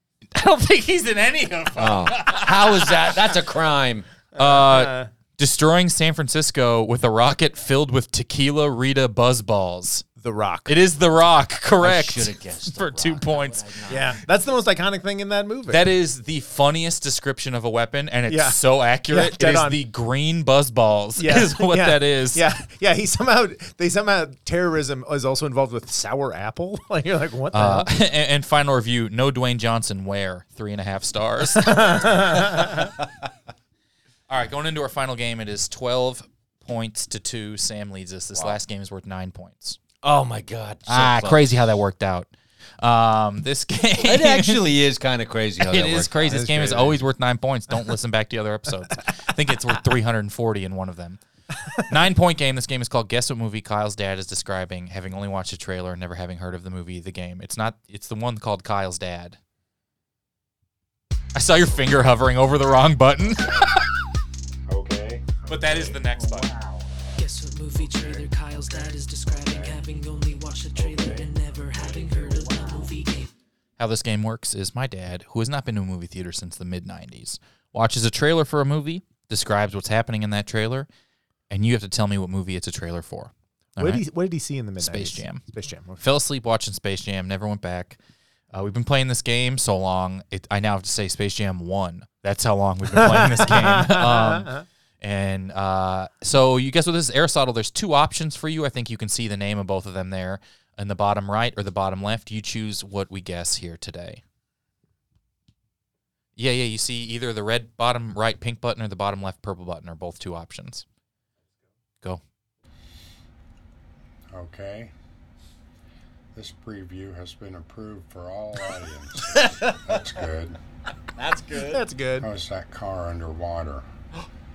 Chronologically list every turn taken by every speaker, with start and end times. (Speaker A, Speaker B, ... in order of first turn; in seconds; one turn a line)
Speaker A: 0.3-3.1
Speaker B: 1.8-4.1
Speaker C: 4.3-5.1
Speaker A: 4.4-10.1
Speaker C: 10.2-10.8
Speaker A: 10.7-13.8
Speaker B: 11.8-14.2
Speaker C: 13.9-15.8
Speaker A: 15.7-22.4
Speaker C: 18.3-19.8
Speaker C: 21.2-27.9
Speaker A: 27.5-32.1
Speaker C: 31.6-32.9
Speaker A: 34.3-39.8
Speaker B: 40.0-41.5
Speaker A: 40.9-44.7
Speaker B: 44.0-46.4
Speaker A: 45.6-51.2
Speaker C: 46.2-47.0
Speaker A: 51.8-59.4
Speaker A: 61.3-63.8
Speaker D: 63.3-63.8
Speaker D: 64.7-66.8
Speaker A: 65.5-66.5
Speaker E: 67.2-73.3
Speaker D: 69.4-69.8
Speaker D: 70.7-71.3
Speaker A: 73.8-80.9
Speaker A: 81.5-84.0
Speaker C: 83.8-86.0
Speaker A: 84.8-85.4
Speaker A: 86.0-88.0
Speaker A: 88.5-104.2
Speaker C: 93.0-94.6
Speaker A: 106.4-110.8
Speaker D: 114.3-114.9
Speaker D: 116.3-120.6
Speaker B: 119.3-119.8
Speaker B: 121.2-121.8
Speaker C: 121.6-122.3
Speaker D: 122.2-123.8